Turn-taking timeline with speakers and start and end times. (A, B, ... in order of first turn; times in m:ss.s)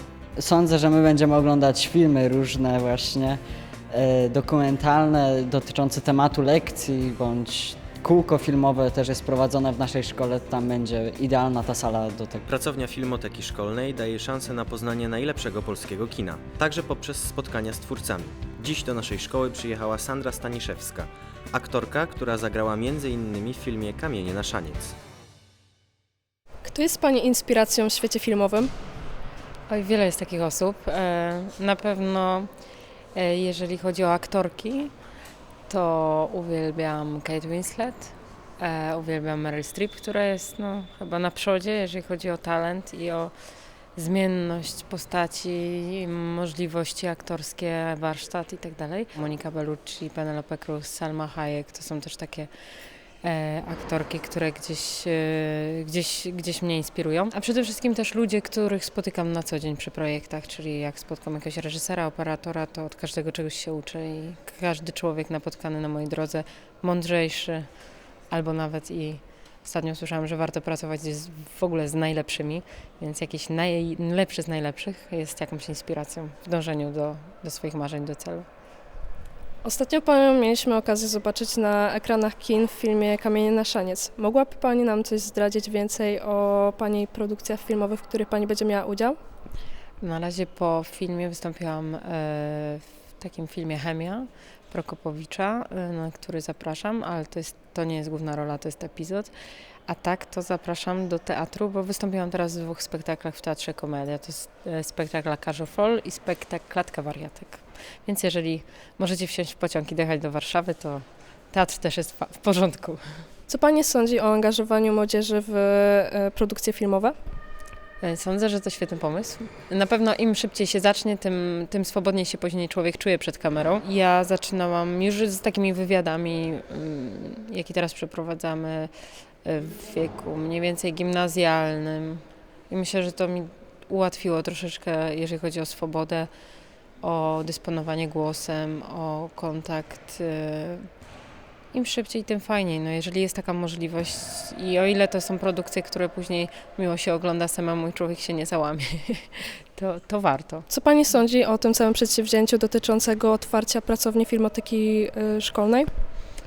0:00.4-0:03.4 A
0:03.9-0:12.4 A
0:12.4-0:25.0 B
0:26.6-0:28.7 C
0:29.7-0:32.5 D
0:33.2-0:34.9 D
0:35.7-0:43.3 D
0:44.0-0:52.5 D
0:53.2-1:07.7 D
1:08.3-1:18.5 D
1:19.6-1:29.2 C
1:30.0-1:39.3 D
1:39.9-1:53.0 D
1:53.5-1:57.2 C
1:58.0-2:08.9 D
2:09.4-2:16.3 D
2:17.0-2:20.9 D
2:21.7-2:30.7 D
2:30.7-2:35.9 C